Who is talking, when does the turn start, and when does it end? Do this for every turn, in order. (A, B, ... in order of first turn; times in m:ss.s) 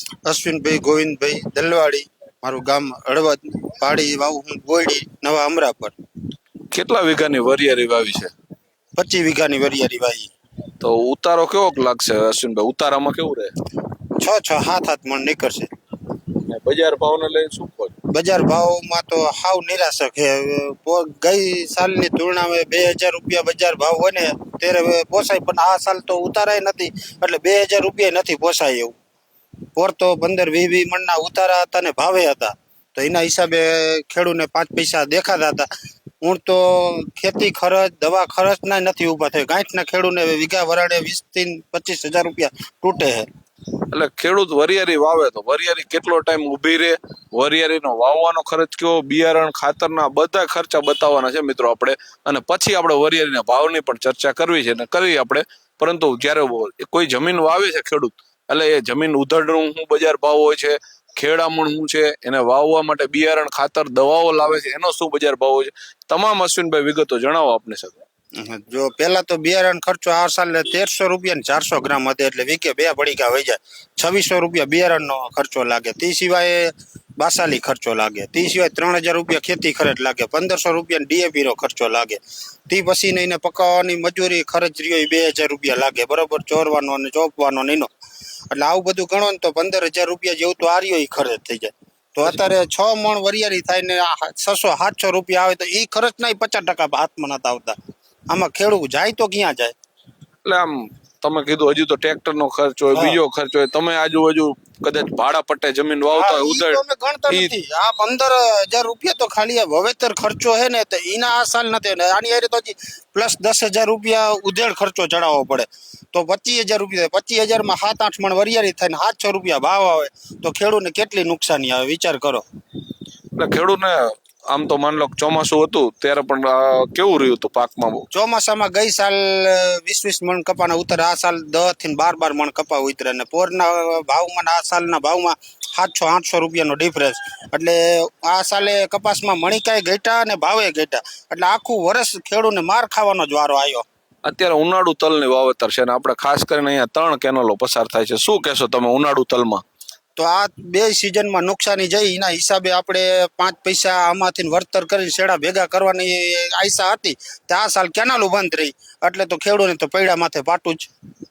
0:00.2-0:05.9 A
0:06.7-0:08.3 B
0:09.0-0:10.3 A
0:10.8-0:13.5 B
0:14.2-0:15.7 A
0:16.4-0:17.9 B
0:18.1-0:28.9 A
0:29.8-0:35.7 A
0:36.2-0:43.2 A
0:43.9-1:08.0 B
1:08.4-1:27.9 A
1:28.5-1:37.8 A
1:38.3-1:39.7 A
1:40.4-1:47.5 B
1:42.9-1:43.2 A
1:46.1-2:02.4 A
2:03.4-2:08.0 B
2:08.1-2:23.8 A
2:24.2-2:29.6 B
2:30.2-2:40.9 A